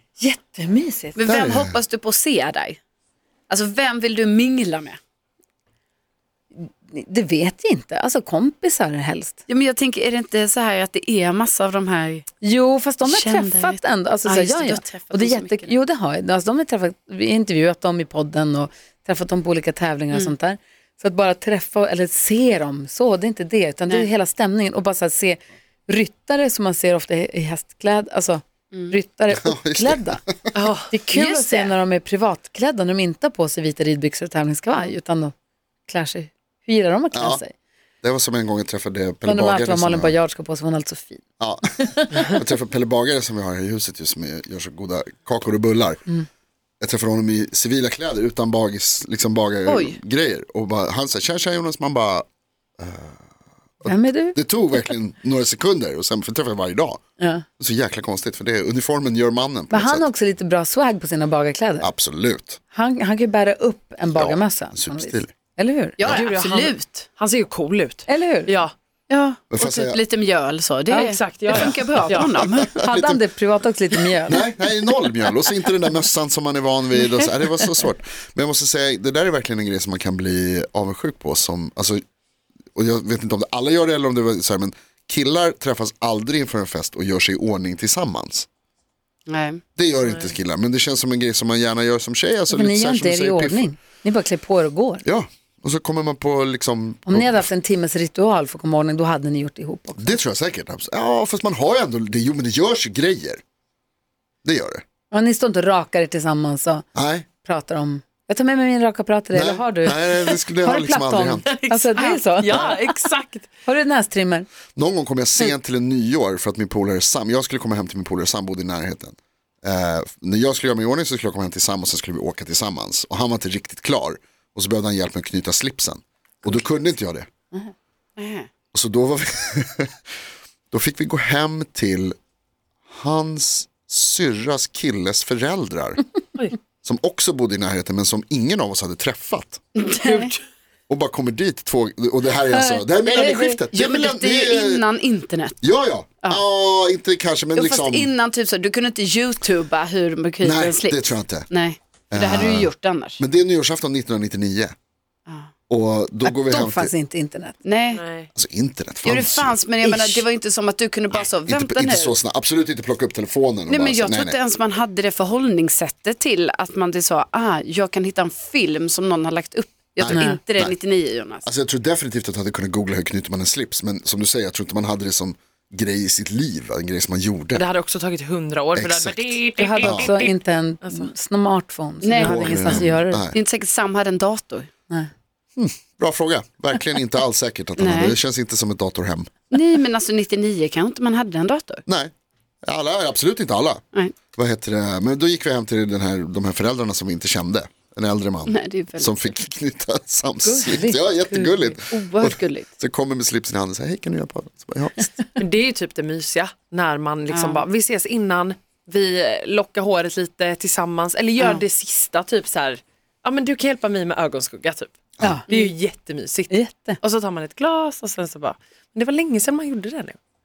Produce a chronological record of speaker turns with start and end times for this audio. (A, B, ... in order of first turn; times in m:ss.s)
0:00.2-0:01.2 A
0:01.2-0:02.8 B
0:01.2-0:01.8 C
0:03.5-0:05.0 B
0:06.6-0:09.4 A
0:09.5-0:12.3 B
0:12.4-0:30.2 A
0:13.0-0:15.8 B
0:29.3-0:30.5 C
0:30.5-0:30.9 D
0:30.9-0:35.3 A
0:31.1-0:31.7 B
0:35.9-0:37.5 A
0:37.1-0:37.4 C
0:38.0-0:40.2 C
0:39.2-0:41.2 A
0:41.4-0:46.0 C
0:41.8-0:42.4 A
0:46.8-0:52.2 C
0:49.6-0:50.0 B
0:52.8-0:53.2 C
0:53.8-0:57.0 C
0:53.8-0:54.4 A
0:57.2-0:57.4 A
0:57.6-1:00.1 C
0:59.7-1:01.9 A
1:01.8-1:02.6 C
1:02.7-1:06.1 A
1:04.1-1:05.3 C
1:06.0-1:07.0 B
1:06.0-1:08.7 D
1:08.1-1:08.6 A
1:09.1-1:12.7 B
1:09.5-1:10.0 C
1:10.9-1:12.3 D
1:12.3-1:13.2 C
1:12.6-1:14.5 A
1:14.3-1:22.0 C
1:22.7-1:28.5 C
1:29.3-1:29.6 B
1:29.8-1:33.7 C
1:30.0-1:30.3 D
1:32.5-1:35.0 A
1:35.0-1:37.5 C
1:37.0-1:40.2 A
1:40.0-1:43.4 C
1:44.4-1:44.8 C
1:45.1-1:46.8 A
1:46.9-1:47.2 C
1:47.4-1:52.8 A
1:49.3-1:51.5 C
1:51.5-1:53.5 D
1:53.6-1:54.5 A
1:54.8-2:07.3 C
2:08.2-2:08.5 B
2:08.7-2:09.9 C
2:10.7-2:12.2 C
2:12.9-2:16.0 C
2:16.8-2:19.6 C
2:19.8-2:20.3 B
2:20.0-2:20.3 D
2:20.9-2:24.8 C
2:22.5-2:23.6 A
2:23.7-2:25.6 B
2:25.6-2:28.1 C
2:27.6-2:33.2 B
2:30.4-2:31.5 C
2:32.1-2:34.7 C
2:35.7-2:36.9 C
2:36.2-2:37.6 A
2:37.6-2:38.0 B
2:37.9-2:38.3 D
2:38.3-2:39.6 C
2:39.0-2:42.2 B
2:39.8-2:40.2 A
2:41.2-2:44.4 C
2:43.7-2:51.5 B
2:50.0-2:50.7 C
2:50.1-2:50.4 A
2:51.4-2:57.6 C
2:57.5-3:01.1 D
2:58.7-3:00.1 C
2:59.5-3:03.3 A
3:02.0-3:04.7 B
3:02.2-3:03.4 C
3:05.6-3:09.3 C
3:07.8-3:08.2 B
3:09.5-3:11.8 B
3:11.9-3:12.1 C
3:12.6-3:13.8 C
3:14.3-3:25.1 C
3:18.5-3:19.3 B
3:20.4-3:21.1 A
3:21.3-3:22.7 B
3:25.4-3:34.9 D
3:27.3-3:27.6 B
3:31.4-3:31.6 B
3:35.2-3:35.5 A
3:35.5-3:35.7 B
3:35.5-3:40.2 D
3:36.5-3:37.0 A